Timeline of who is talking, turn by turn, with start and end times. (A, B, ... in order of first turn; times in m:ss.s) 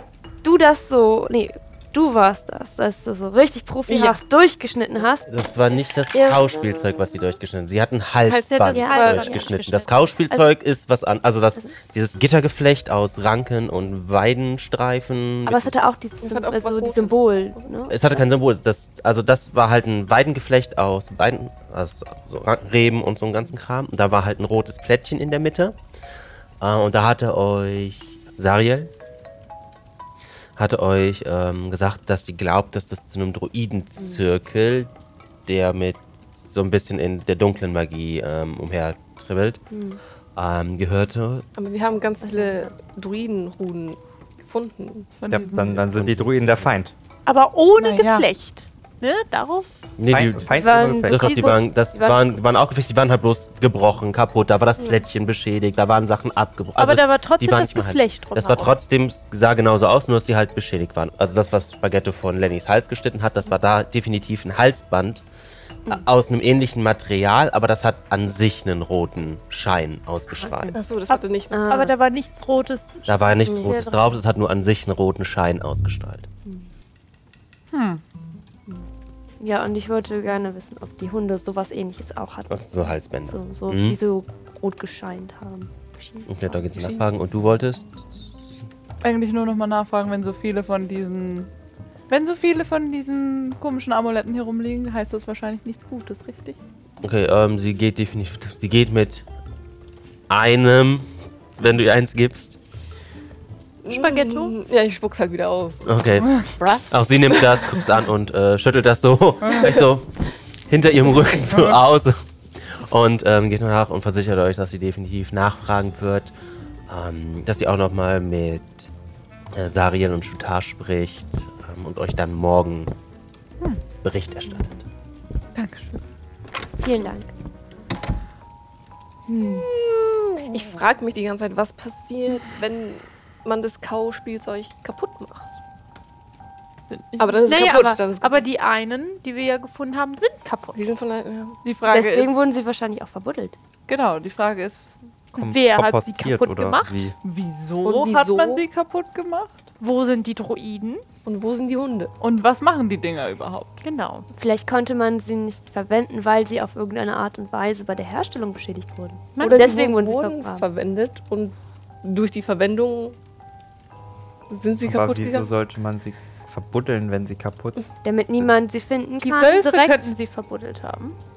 0:00.4-0:05.3 A
0:03.9-0:04.2 B
0:05.3-0:15.8 C
0:06.2-0:06.5 A
0:08.3-0:10.0 D
0:08.6-0:09.3 B
0:08.7-0:09.3 A
0:15.5-0:18.2 A
0:16.2-0:17.2 B
0:17.9-0:25.8 C
0:26.6-0:28.9 C
0:30.6-0:34.9 C
0:35.5-0:39.6 C
0:39.7-0:40.0 A
0:40.4-0:41.5 C
0:41.6-0:45.1 B
0:42.2-0:42.7 A
0:45.2-0:45.7 E
0:45.3-0:46.9 F
0:45.6-0:46.7 C
0:47.3-0:49.7 D
0:47.8-0:48.3 E
0:50.0-1:05.2 C
0:50.1-0:51.3 F
0:50.6-0:52.3 A
0:56.8-0:58.8 D
1:05.9-1:10.8 C
1:10.4-1:10.8 A
1:10.7-1:11.9 B
1:11.1-1:14.1 D
1:11.5-1:11.9 A
1:13.1-1:16.3 C
1:17.7-1:18.0 E
1:19.4-1:26.3 A
1:22.5-1:24.0 C
1:26.3-1:28.1 C
1:29.0-1:31.5 E
1:32.1-1:36.6 E
1:37.0-1:39.3 C
1:40.3-1:42.6 C
1:43.8-1:45.9 B
1:43.9-1:44.5 D
1:45.9-1:50.1 C
1:49.4-1:49.7 E
1:50.7-1:56.3 C
1:51.5-1:51.8 E
1:56.9-1:58.9 C
1:59.5-2:02.9 C
2:04.0-2:04.9 C
2:05.6-2:06.0 E
2:06.8-2:07.3 A
2:10.3-2:15.5 B
2:16.9-2:17.4 E
2:17.2-2:18.4 B
2:17.5-2:20.8 D
2:20.8-2:21.6 B
2:21.6-2:22.5 E
2:21.9-2:23.6 A
2:23.9-2:25.0 E
2:25.3-2:27.1 D
2:25.4-2:27.2 F
2:27.2-2:29.6 E
2:27.8-2:28.6 B
2:29.8-2:31.0 D
2:31.3-2:32.1 B
2:32.2-2:33.8 E
2:33.8-2:34.3 D
2:34.3-2:40.6 A
2:39.4-2:40.0 D
2:39.4-2:43.2 B
2:44.5-2:45.5 B
2:44.8-2:47.8 F
2:48.0-2:50.1 A
2:49.2-2:51.2 D